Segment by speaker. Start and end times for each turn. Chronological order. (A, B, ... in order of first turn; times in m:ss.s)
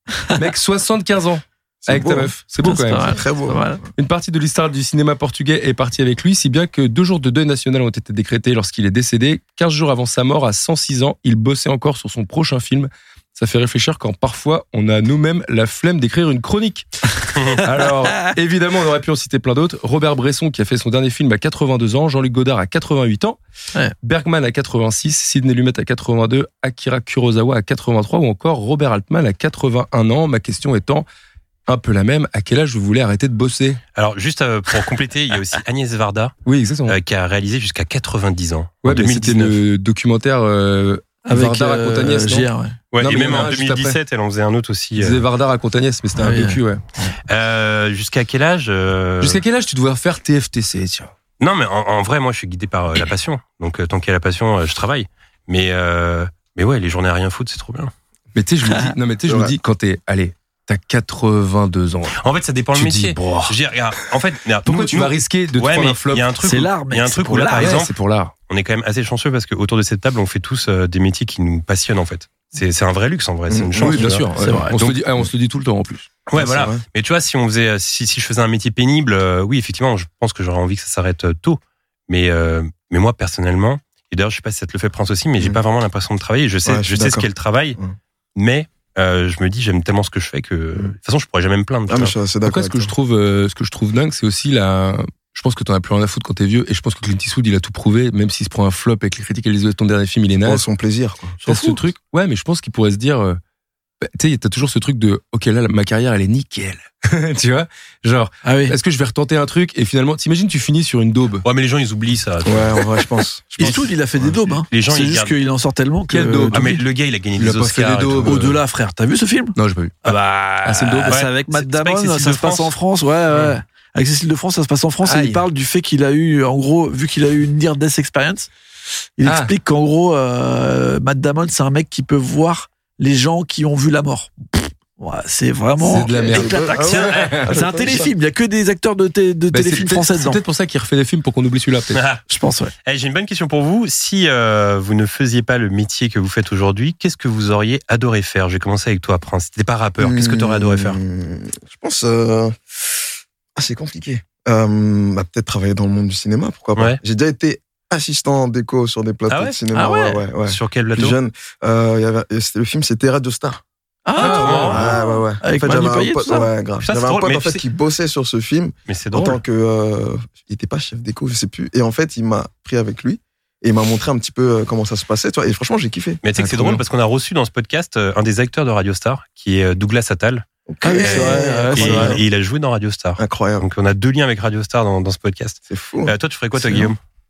0:00.3-0:03.2 A
0:01.8-0:02.3 B
0:02.6-0:03.8 C
0:02.9-0:03.7 B
0:04.0-0:23.4 A
0:24.0-0:31.1 A
0:31.7-0:33.8 A
0:34.0-0:36.3 D
0:36.5-0:37.0 A
0:36.9-0:39.6 D
0:38.8-0:44.0 A
0:41.3-0:42.8 C
0:42.9-0:45.2 D
0:45.0-0:46.8 A
0:46.2-0:46.6 C
0:47.3-0:49.4 D
0:49.2-0:51.1 A
0:51.4-0:57.9 D
0:58.4-1:02.2 A
0:59.3-0:59.5 B
1:02.2-1:08.0 D
1:02.8-1:03.6 A
1:04.6-1:06.4 A
1:06.4-1:07.8 C
1:07.5-1:08.3 A
1:08.5-1:14.3 D
1:13.5-1:14.0 B
1:13.8-1:16.1 A
1:14.4-1:14.9 C
1:16.3-1:27.8 D
1:16.4-1:16.8 B
1:26.6-1:28.0 B
1:28.4-1:32.2 D
1:31.9-1:32.9 B
1:32.4-1:40.6 A
1:40.4-1:41.4 B
1:41.4-1:43.4 A
1:41.5-1:41.8 C
1:44.0-1:51.4 A
1:48.4-1:48.8 C
1:51.4-1:52.8 D
1:52.4-1:54.6 B
1:53.6-1:56.8 C
1:54.7-1:55.4 D
1:56.1-1:56.8 A
1:56.5-1:58.5 D
1:57.4-1:58.6 A
1:58.2-2:00.2 C
1:59.6-2:01.2 A
2:00.0-2:02.8 D
2:01.0-2:08.5 C
2:05.0-2:05.4 A
2:09.2-2:20.4 C
2:09.2-2:09.5 A
2:15.8-2:16.7 A
2:16.1-2:18.1 B
2:16.8-2:17.5 D
2:19.5-2:22.0 A
2:21.9-2:22.2 D
2:22.3-2:22.7 C
2:22.8-2:31.0 D
2:30.0-2:32.6 B
2:33.6-2:43.6 B
2:39.3-2:39.6 D
2:39.7-2:40.2 C
2:40.4-2:41.2 D
2:44.0-2:46.5 C
2:44.2-2:44.9 D
2:44.2-2:44.9 A
2:44.3-2:56.2 B
2:46.8-2:47.6 D
2:48.9-2:49.4 D
2:56.2-3:00.4 D
2:56.3-2:56.8 A
3:00.7-3:02.2 B
3:00.8-3:02.2 C
3:01.0-3:07.0 D
3:03.2-3:03.7 B
3:05.7-3:06.1 B